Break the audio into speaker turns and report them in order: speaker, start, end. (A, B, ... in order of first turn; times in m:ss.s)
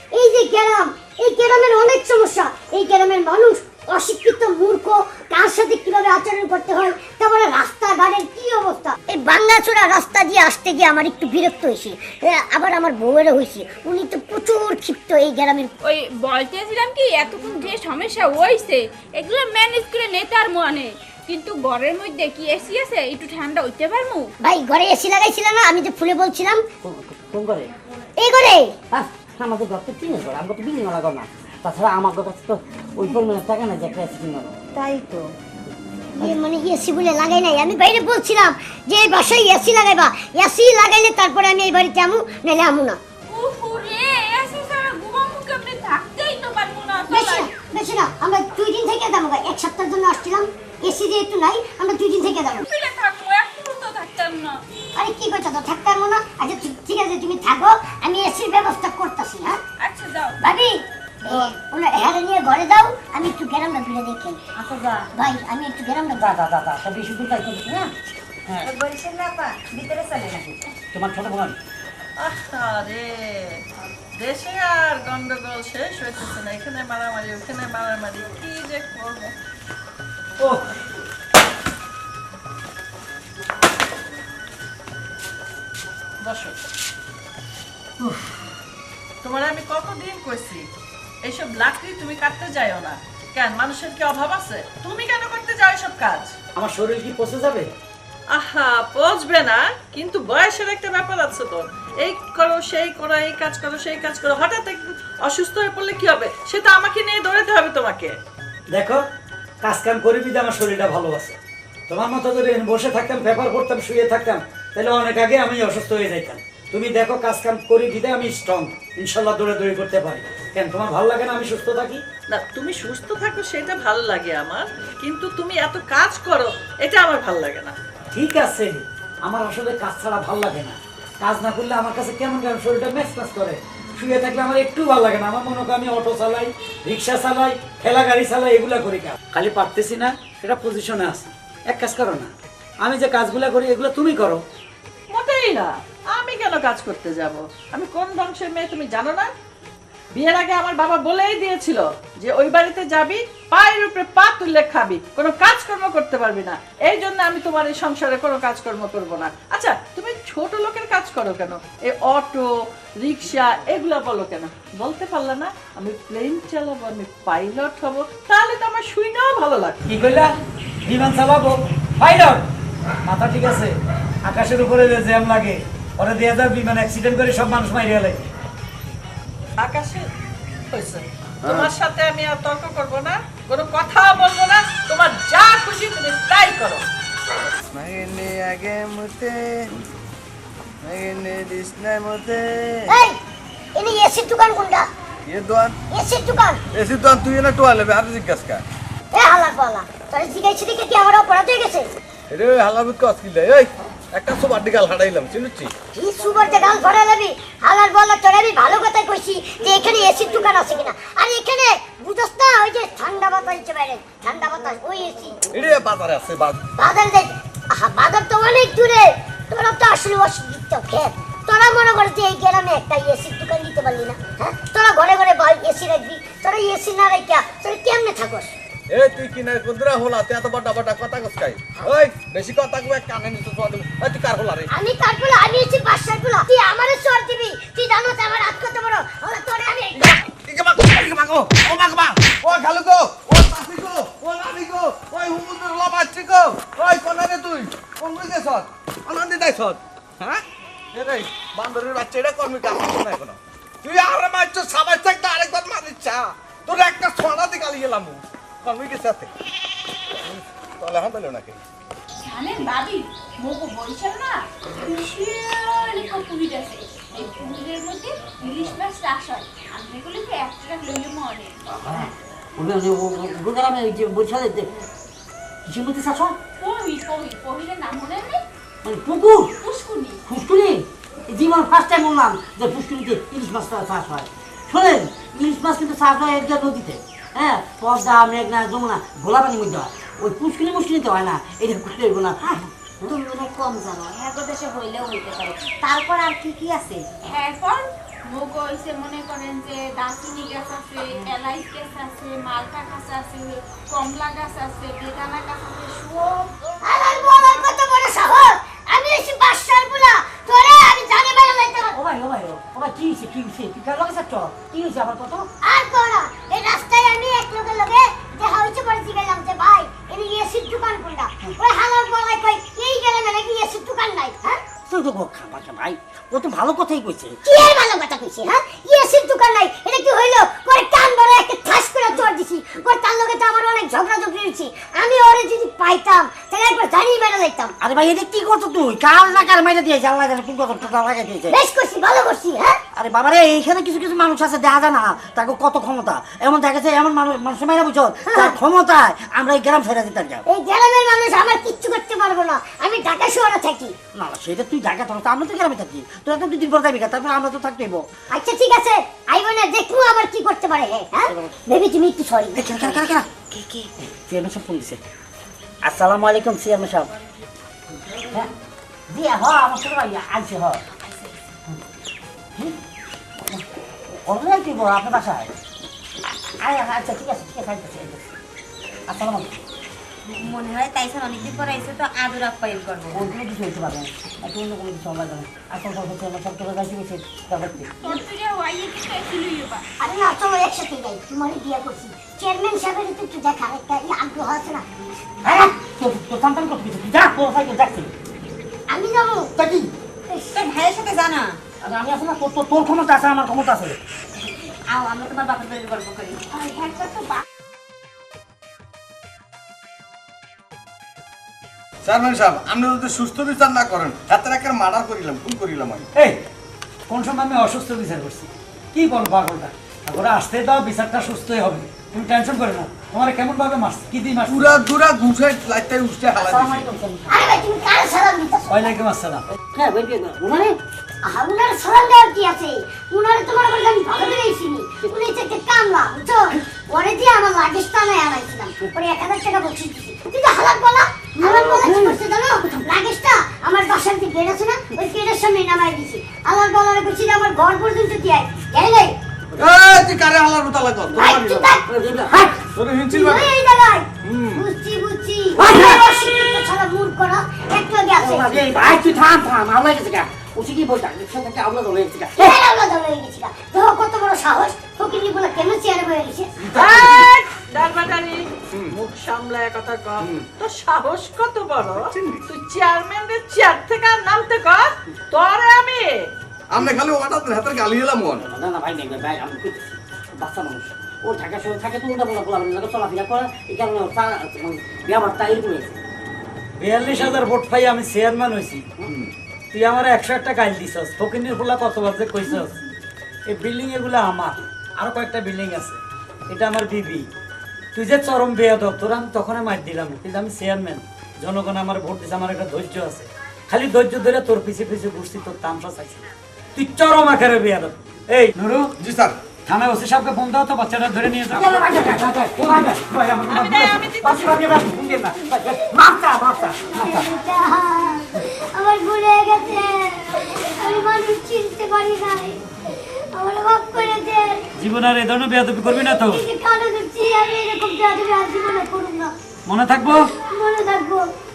0:00.1-0:15.7 A
0:15.8-0:24.3 B
0:24.4-0:26.6 A
0:26.8-0:27.7 C
0:28.2-0:28.7 A
0:28.9-0:34.6 C
0:34.7-0:35.2 D
0:36.1-0:43.0 A
0:43.3-0:47.5 B
0:47.1-0:52.6 A
0:52.7-0:54.6 B
0:54.9-0:59.6 A
0:59.8-1:00.4 B
1:00.4-1:04.4 A
1:04.6-1:05.1 D
1:05.1-1:06.3 A
1:06.2-1:07.9 C
1:08.5-1:08.7 C
1:08.6-1:10.6 D
1:10.9-1:11.6 C
1:12.2-1:13.6 E
1:14.2-1:19.3 E
1:26.2-1:26.6 E
1:29.2-1:30.7 E
1:31.2-1:36.3 E
1:36.6-1:37.7 F
1:38.3-1:48.1 E
1:48.7-1:49.0 F
1:49.6-1:51.4 F
1:51.9-2:02.0 F
2:02.3-2:07.7 E
2:08.1-2:22.3 F
2:22.8-2:24.4 F
2:25.1-2:29.3 E
2:30.1-2:49.8 E
2:49.8-2:52.4 F
2:53.0-2:58.2 F
2:59.6-3:00.1 E
3:00.7-3:06.8 E
3:07.7-3:09.7 G
3:10.8-3:12.8 G
3:12.9-3:13.2 A
3:13.7-3:14.9 A
3:15.3-3:15.8 G
3:15.9-3:16.6 A
3:16.7-3:18.6 G
3:19.1-3:21.9 A
3:22.3-3:25.7 G
3:25.9-3:35.4 A
3:35.5-3:36.6 G
3:36.8-3:48.5 A
3:48.9-3:54.7 G
3:54.7-4:00.2 A
4:00.0-4:10.4 G
4:10.9-4:19.3 G
4:20.2-4:21.6 G
4:22.2-4:31.6 B
4:31.7-4:34.8 C
4:35.6-4:36.4 C
4:36.6-4:38.4 B
4:38.8-4:39.5 C
4:39.6-4:40.2 B
4:40.2-4:53.2 C
4:52.5-4:57.1 D
4:57.2-5:06.5 B
5:06.8-5:11.9 A
5:11.9-5:15.5 C
5:15.6-5:24.6 A
5:24.9-5:27.4 C
5:27.4-5:37.7 A
5:37.8-5:41.6 C
5:41.5-5:42.8 A
5:43.0-5:50.4 C
5:48.3-5:48.6 A
5:50.4-5:53.9 A
5:54.1-5:58.0 C
5:58.3-6:03.0 A
6:02.6-6:03.3 C
6:02.7-6:03.9 D
6:03.8-6:05.0 C
6:05.8-6:07.1 C
6:09.1-6:10.8 C
6:14.2-6:15.5 C
6:16.6-6:18.3 C
6:19.1-6:19.6 C
6:20.3-6:23.3 D
6:23.1-6:28.2 C
6:28.0-6:29.8 B
6:30.0-6:34.8 A
6:35.4-6:38.1 C
6:38.9-6:39.5 A
6:39.6-6:39.9 C
6:40.3-6:40.6 A
6:40.5-6:41.6 D
6:41.8-6:44.0 C
6:44.9-6:46.4 D
6:46.5-6:47.4 B
6:52.0-6:56.1 G
6:57.1-7:04.8 F
7:04.5-7:06.9 G
7:06.3-7:07.4 C
7:07.3-7:08.9 A
7:08.7-7:09.4 F
7:09.7-7:10.8 C
7:11.2-7:29.2 A
7:21.4-7:22.2 C
7:29.6-7:31.7 G
7:31.1-7:31.8 A
7:31.8-7:32.8 C
7:32.7-7:33.5 G
7:33.1-7:38.5 A
7:34.2-7:34.6 G
7:35.6-7:36.0 C
7:38.2-7:42.5 C
7:42.4-7:46.5 A
7:46.7-7:47.3 G
7:46.7-7:56.3 E
7:52.0-7:52.4 G
7:56.7-7:58.4 G
7:58.3-8:06.0 C
8:06.8-8:08.8 F
8:09.7-8:12.8 F
8:13.5-8:17.2 F
8:17.9-8:26.2 F
8:26.7-8:28.9 F
8:29.0-8:29.4 G
8:29.6-8:37.3 F
8:31.5-8:33.0 C
8:33.5-8:34.6 E
8:35.8-8:36.2 C
8:36.9-8:42.6 A
8:43.3-8:44.6 A
8:44.8-8:46.4 F
8:45.9-8:49.3 A
8:49.6-8:50.3 F
8:50.5-8:51.2 A